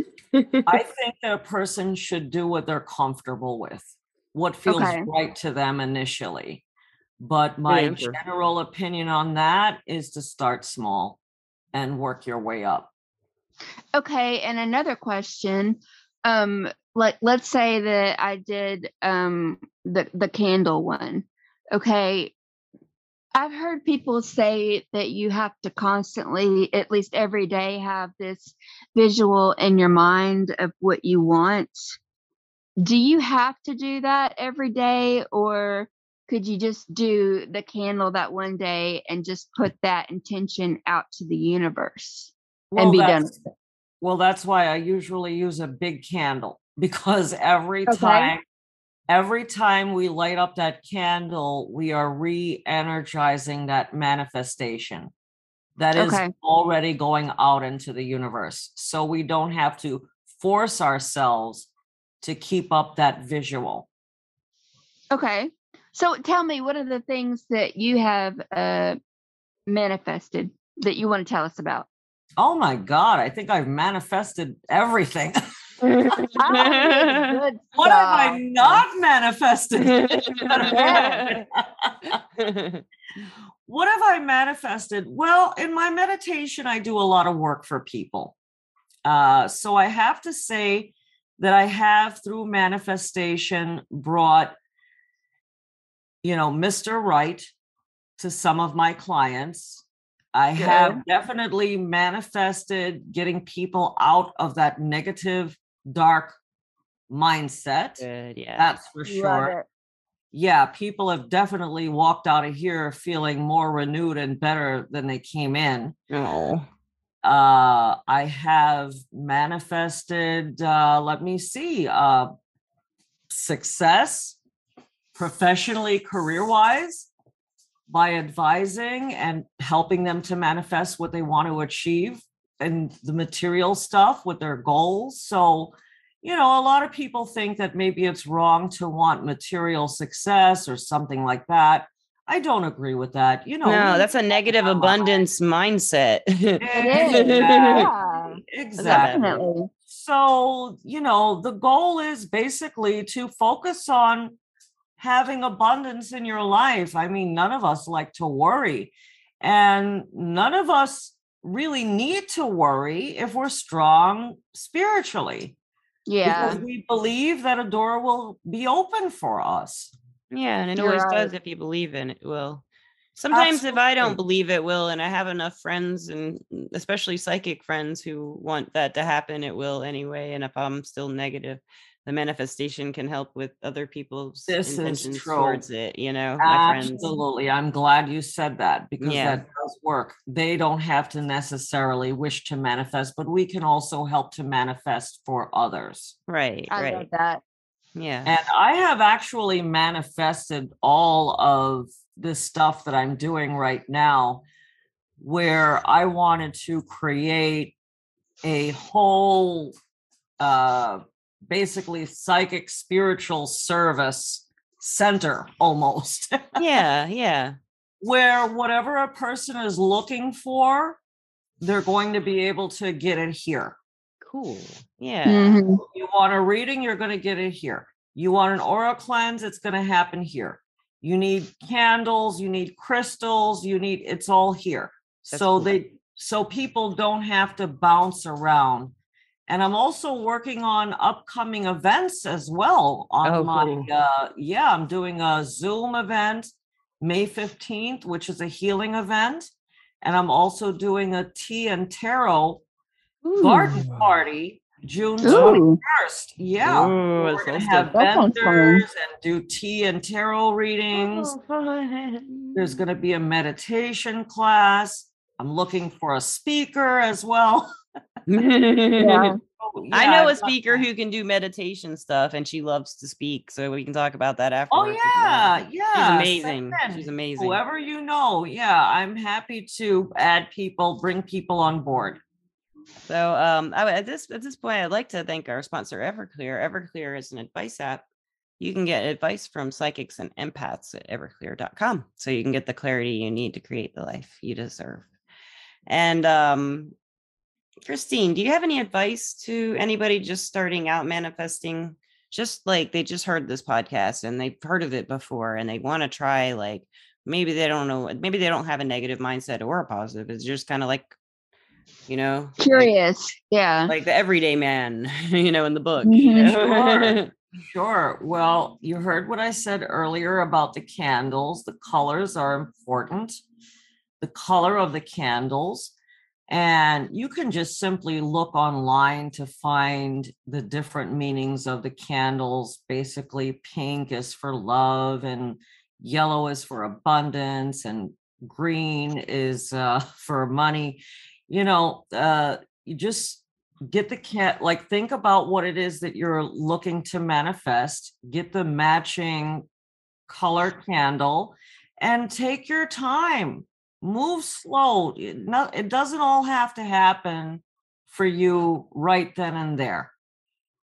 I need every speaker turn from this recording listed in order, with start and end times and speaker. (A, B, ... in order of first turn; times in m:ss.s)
0:00.3-0:00.7 A
0:00.7-0:06.6 B
0:04.7-0:05.1 C
0:07.2-0:11.2 B
0:07.7-0:08.2 A
0:11.7-0:12.9 B
0:14.0-0:22.4 C
0:23.3-0:31.8 C
0:32.8-0:43.3 C
0:42.7-0:43.3 B
0:44.0-0:48.4 B
0:47.9-0:48.3 C
0:49.1-0:55.1 B
0:55.8-1:01.7 B
0:56.0-0:56.3 C
1:02.2-1:03.9 B
1:05.1-1:09.0 C
1:09.7-1:11.9 C
1:12.4-1:15.4 B
1:15.8-1:17.4 A
1:16.4-1:18.8 C
1:17.7-1:22.2 B
1:19.8-1:21.4 A
1:20.6-1:21.2 C
1:22.1-1:22.8 A
1:23.7-1:28.4 B
1:29.0-1:34.6 B
1:36.2-1:37.5 B
1:38.2-1:46.4 B
1:40.6-1:41.0 C
1:47.1-1:48.1 B
1:48.0-1:48.7 A
1:48.6-1:49.5 B
1:49.1-1:49.7 C
1:50.3-1:55.9 B
1:56.1-1:56.7 A
1:57.2-2:02.3 B
2:03.3-2:04.4 B
2:05.2-2:07.1 B
2:07.9-2:25.3 B
2:23.6-2:27.9 A
2:26.6-2:29.2 B
2:26.8-2:29.7 C
2:28.8-2:29.4 A
2:29.9-2:34.4 B
2:35.0-2:45.6 B
2:46.1-2:46.6 C
2:46.2-2:49.9 B
2:50.3-2:52.6 A
2:50.8-2:51.3 C
2:53.2-3:07.1 A
2:53.3-2:54.2 B
3:04.5-3:05.6 B
3:06.4-3:16.2 B
3:06.8-3:07.1 C
3:09.0-3:09.4 A
3:16.3-3:17.1 A
3:16.7-3:17.4 C
3:18.0-3:18.4 A
3:18.3-3:24.4 B
3:25.2-3:27.8 B
3:28.4-3:29.7 B
3:30.4-3:36.6 B
3:36.6-3:37.6 A
3:38.0-3:41.0 B
3:41.6-3:43.8 B
3:44.2-3:45.6 A
3:45.3-3:45.8 C
3:45.8-3:58.9 B
3:55.3-3:55.7 A
3:59.5-4:06.5 B
4:03.2-4:03.9 A
4:07.0-4:09.5 B
4:10.0-4:12.6 B
4:13.2-4:14.1 A
4:13.4-4:21.3 B
4:15.2-4:15.6 A
4:15.2-4:15.8 C
4:16.6-4:17.9 A
4:18.0-4:18.8 C
4:20.9-4:22.8 A
4:22.5-4:27.7 B
4:28.3-4:29.4 A
4:29.0-4:29.4 C
4:29.6-4:30.9 B
4:29.9-4:37.6 A
4:34.7-4:42.2 B
4:43.1-4:48.0 A
4:48.6-4:55.1 A
4:55.9-4:57.0 A
4:57.8-5:11.2 A
5:12.1-5:12.9 A
5:12.6-5:13.9 C
5:13.9-5:17.3 A
5:16.0-5:16.5 C
5:16.4-5:17.2 B
5:17.7-5:23.4 B
5:24.2-5:25.9 B
5:26.5-5:49.7 B
5:50.3-6:00.1 B